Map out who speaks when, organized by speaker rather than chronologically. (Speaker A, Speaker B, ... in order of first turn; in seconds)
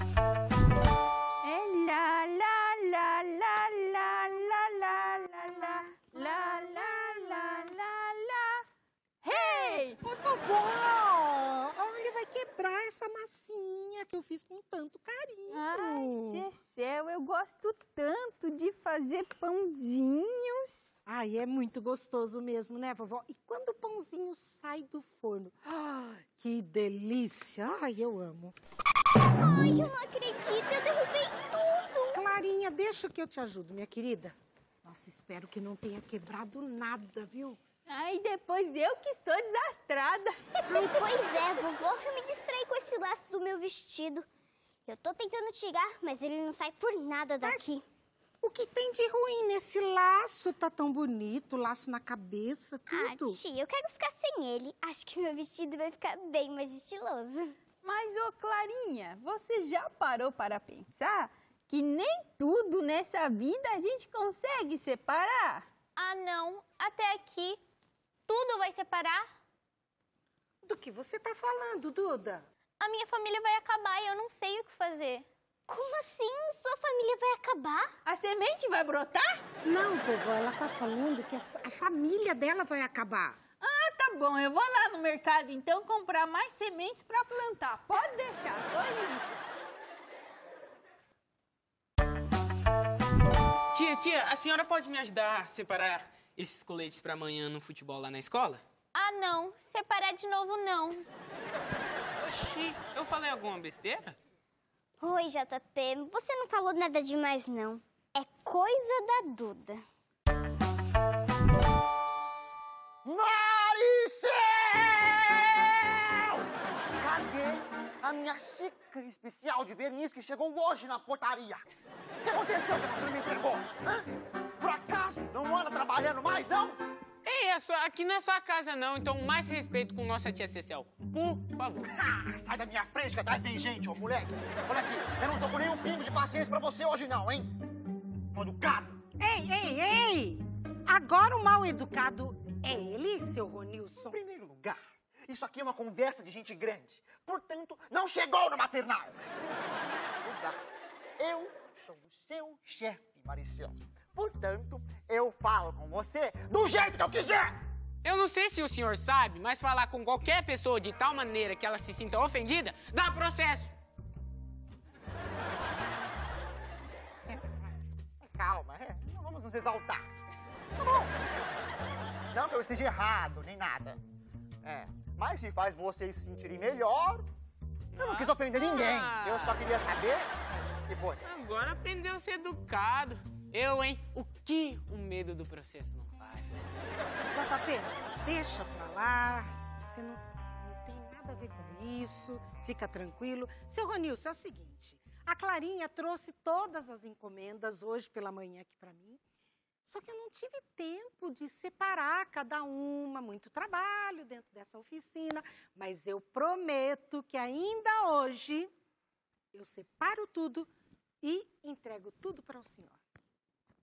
Speaker A: 1.4-8.7, 9.2-10.0, 15.5-20.9, 37.9-40.8, 57.8-65.7, 78.0-79.4, 83.6-89.3
Speaker B: 6.2-7.7, 9.4-16.5, 21.1-28.6, 32.1-37.6, 47.4-47.8, 48.4-53.4, 70.6-72.5, 79.6-83.4, 139.2-144.2, 187.3-199.2, 199.8-208.7, 209.5-210.7, 211.2-213.0
Speaker C: 29.3-32.2, 40.7-44.3, 44.9-47.9, 52.9-57.5, 75.7-77.9, 105.0-109.8
Speaker D: 66.0-67.6, 68.3-69.3, 72.8-75.3, 99.0-101.1
Speaker E: 93.7-98.6, 102.2-104.2, 127.2-131.9, 158.0-163.8, 178.0-179.6, 181.2-186.6
Speaker F: 113.0-121.6, 122.2-124.1, 124.6-126.8, 131.9-137.6, 138.3-139.0, 144.1-150.6, 151.2-157.6, 168.3-170.1, 170.8-171.3, 172.3-174.0, 174.6-177.3, 178.0-181.2